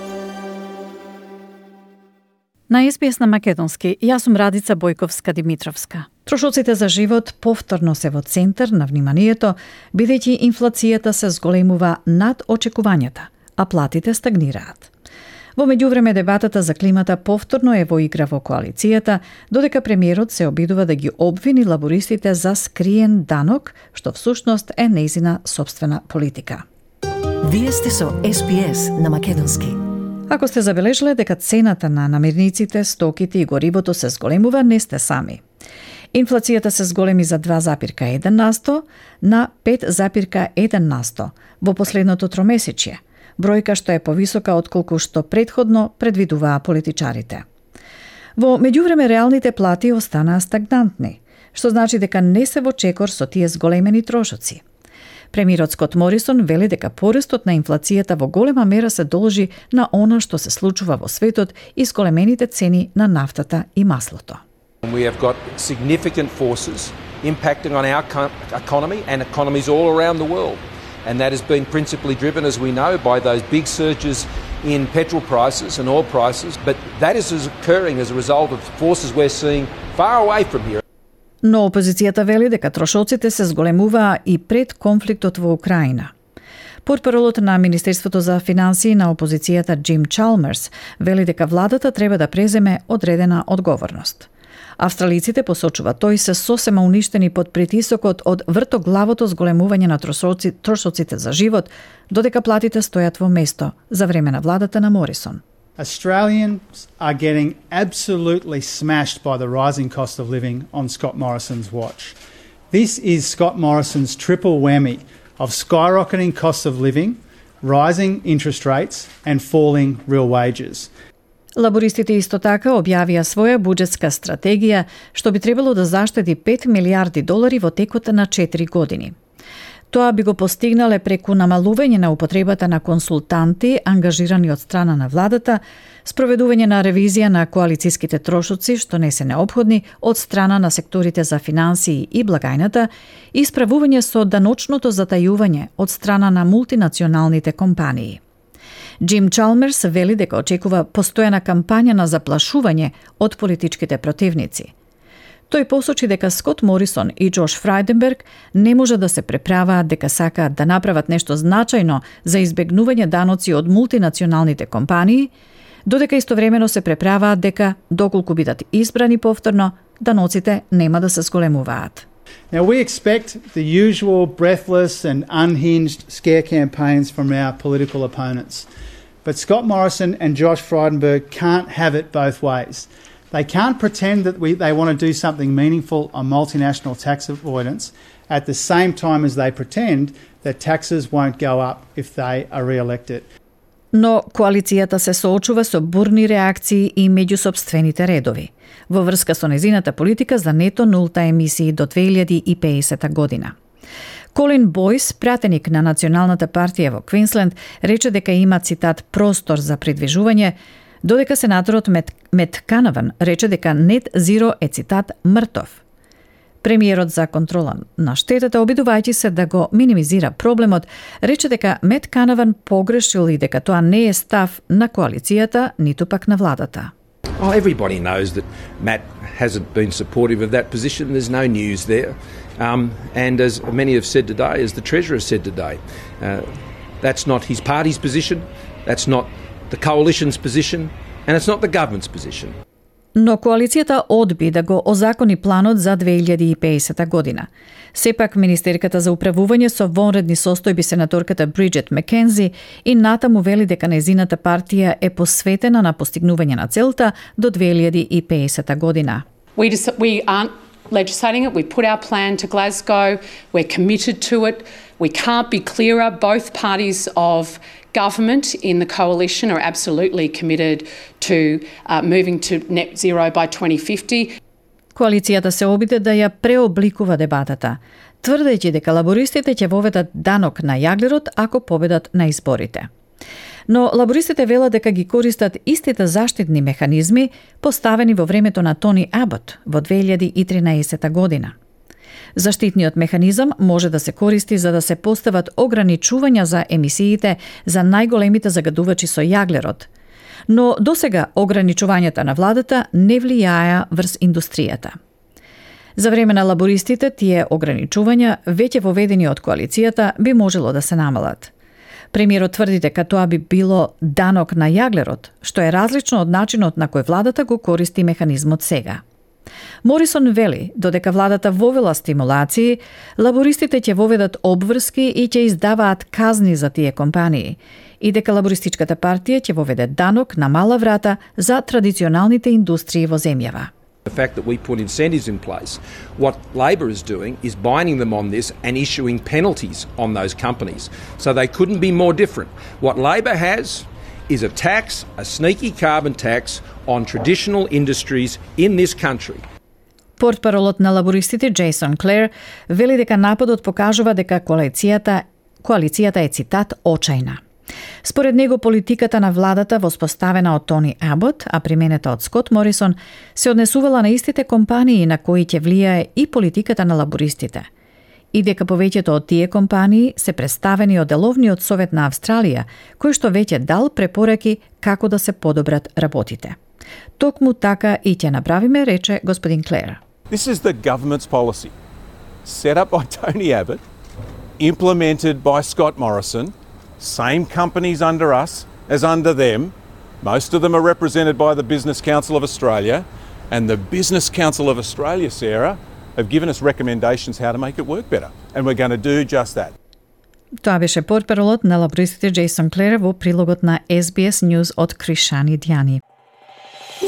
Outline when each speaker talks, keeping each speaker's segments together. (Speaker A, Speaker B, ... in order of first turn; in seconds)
Speaker A: 2.7-14.9, 15.6-26.6, 30.3-35.4, 36.1-47.4, 48.4-54.6, 55.3-64.4, 81.4-86.1, 86.8-105.4, 121.5-129.1, 129.9-148.2, 149.0-154.7, 155.5-165.3, 165.8-172.1, 193.9-203.5, 204.3-215.8, 216.6-226.9, 243.2-259.2, 274.9-282.9, 283.7-291.5, 292.3-299.9, 300.5-304.9, 305.9-311.5, 312.1-319.0, 319.8-333.7, 350.2-357.4, 358.0-367.7, 368.3-376.6, 377.2-380.0, 400.6-406.0
Speaker B: 27.4-29.8
Speaker C: 64.8-80.8, 227.4-236.5, 237.0-242.6, 334.1-349.4
Speaker D: 105.8-112.2, 112.7-120.9, 172.5-178.7, 179.2-193.3
Speaker E: 259.6-274.3
Speaker F: 380.3-381.7, 382.4-383.8, 384.6-399.7